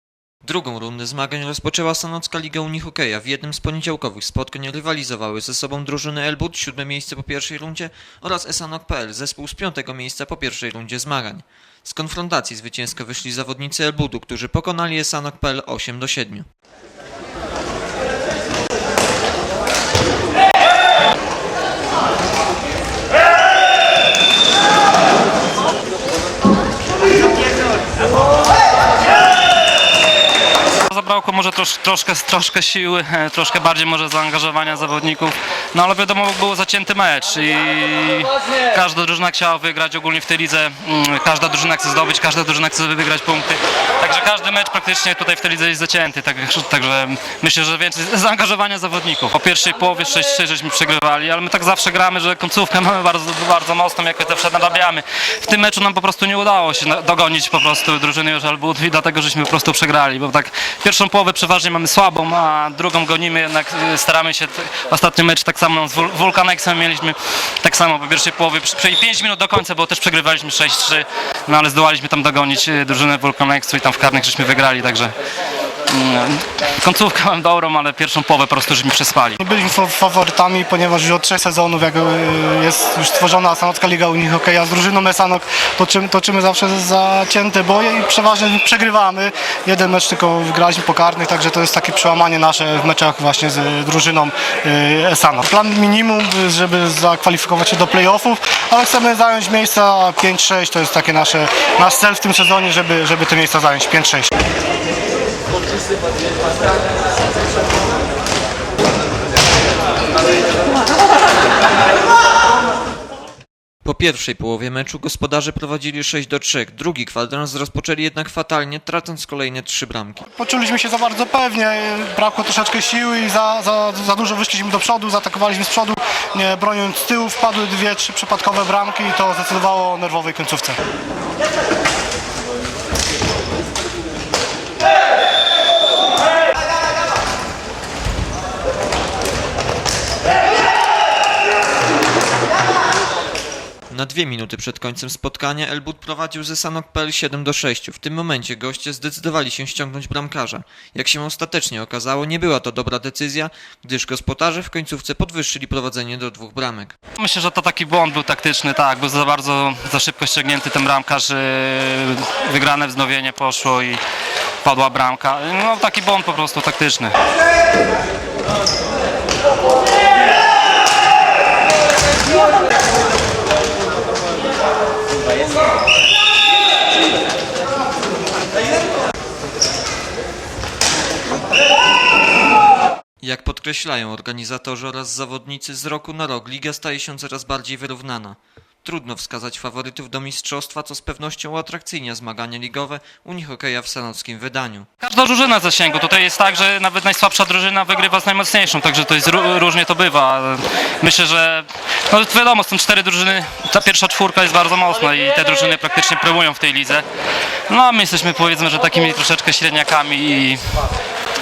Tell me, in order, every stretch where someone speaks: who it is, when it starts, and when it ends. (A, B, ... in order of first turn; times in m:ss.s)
0:00.4-0:16.4 A
0:30.9-1:15.1 B
1:15.9-1:19.4 B
1:19.4-1:44.3 C
1:53.8-2:00.3 A
2:00.3-2:10.8 C
2:23.9-2:37.0 A
2:37.2-2:44.0 B
2:44.6-2:47.2 B
3:03.2-3:14.9 A
3:15.0-3:27.0 B
3:27.7-3:30.6 B